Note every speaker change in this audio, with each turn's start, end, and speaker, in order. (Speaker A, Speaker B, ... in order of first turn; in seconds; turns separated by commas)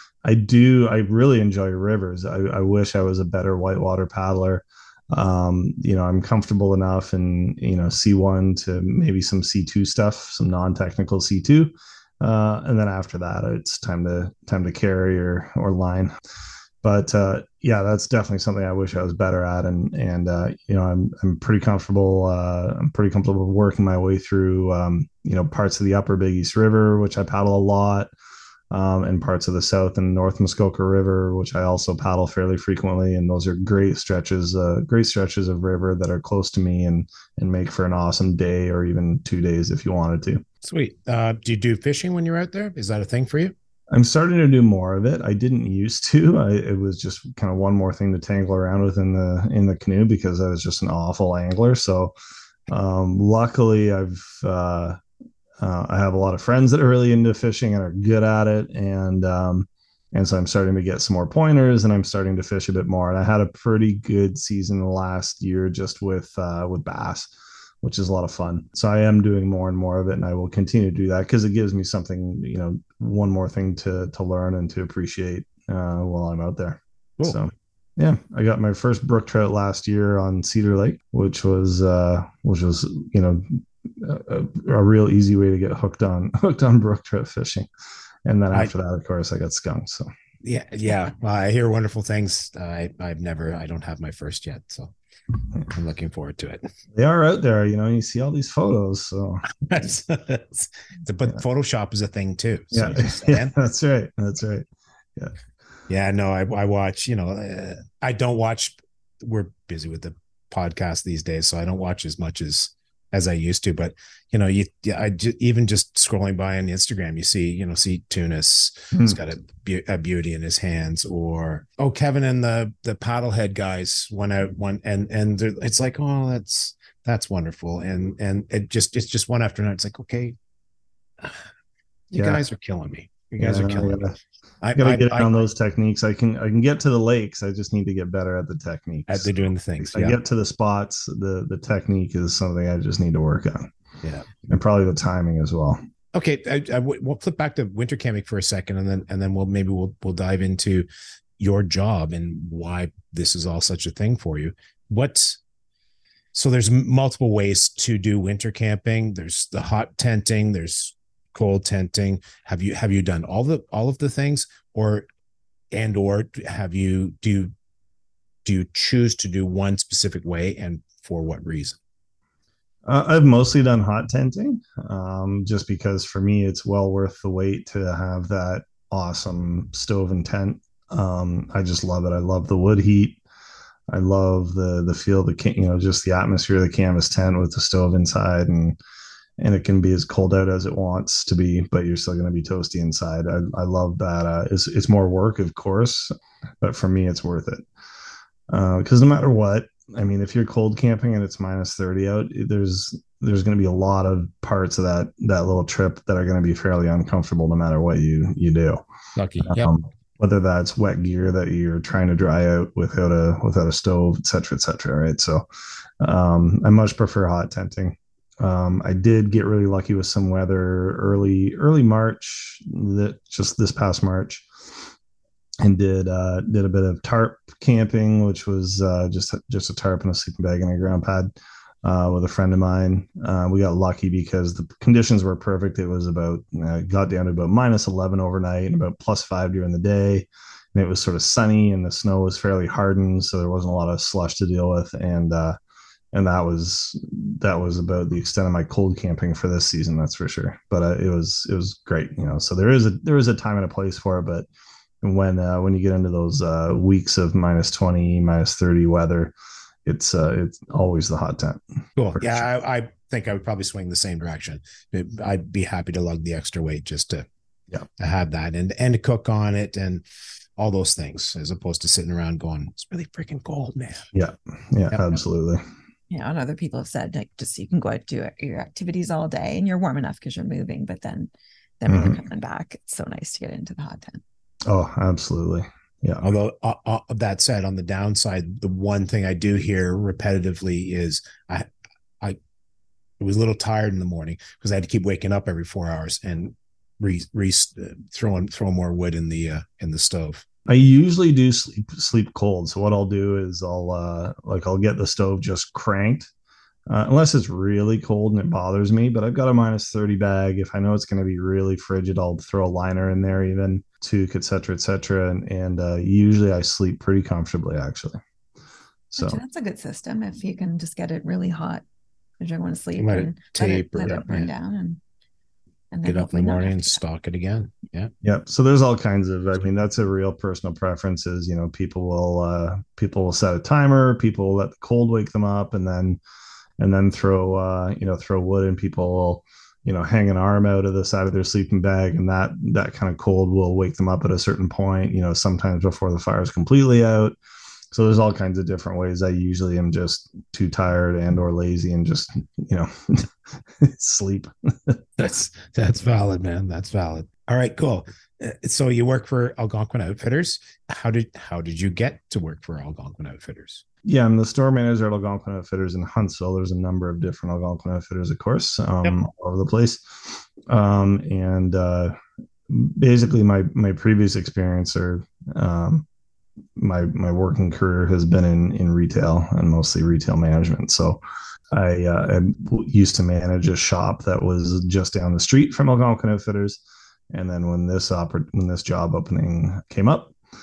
Speaker A: 0.2-16.1, Speaker A: 16.8-28.1, Speaker A: 28.7-40.4, Speaker B: 40.6-43.5, Speaker A: 43.9-52.1, Speaker A: 52.7-55.0, Speaker A: 55.6-67.3, Speaker A: 67.8-87.7, Speaker A: 88.2-90.1, Speaker B: 90.4-94.9, Speaker B: 95.7-96.7, Speaker A: 96.9-99.5, Speaker B: 99.6-103.5, Speaker A: 102.7-105.3, Speaker B: 105.9-130.3, Speaker A: 118.9-119.2, Speaker B: 132.1-134.1, Speaker A: 132.1-132.4, Speaker A: 133.4-134.2, Speaker B: 134.6-135.3, Speaker A: 134.8-139.3, Speaker B: 139.1-140.2, Speaker A: 139.8-143.7, Speaker B: 144.0-144.3, Speaker A: 144.5-145.8, Speaker B: 146.1-150.9, Speaker B: 151.4-155.4, Speaker B: 156.3-165.1, Speaker B: 165.7-167.5, Speaker B: 168.4-171.8, Speaker A: 172.8-183.2, Speaker A: 183.9-188.8, Speaker A: 189.4-196.1, Speaker A: 196.6-197.6, Speaker A: 198.5-208.8, Speaker B: 209.2-209.7, Speaker A: 209.4-215.4, Speaker A: 216.0-224.4, Speaker A: 225.6-231.3, Speaker A: 231.8-245.6, Speaker A: 246.1-254.5, Speaker A: 255.0-259.3, Speaker A: 259.9-261.6, Speaker B: 262.0-267.3, Speaker A: 262.1-262.4, Speaker B: 268.0-270.0, Speaker B: 270.6-274.1, Speaker A: 274.1-275.6, Speaker C: 276.1-284.2, Speaker A: 281.9-282.2, Speaker A: 284.7-286.2, Speaker B: 286.2-291.7, Speaker B: 293.2-300.4, Speaker A: 300.7-306.3, Speaker A: 306.9-318.2, Speaker A: 319.1-319.4, Speaker C: 319.2-321.8, Speaker C: 322.4-325.0, Speaker B: 323.0-324.5, Speaker C: 325.9-327.0, Speaker B: 326.0-328.1, Speaker A: 328.2-336.2, Speaker A: 336.8-347.3, Speaker A: 347.9-355.3, Speaker B: 355.2-363.8, Speaker A: 364.0-372.1, Speaker A: 372.7-376.1, Speaker A: 376.8-381.2, Speaker A: 381.7-386.8, Speaker A: 387.3-390.3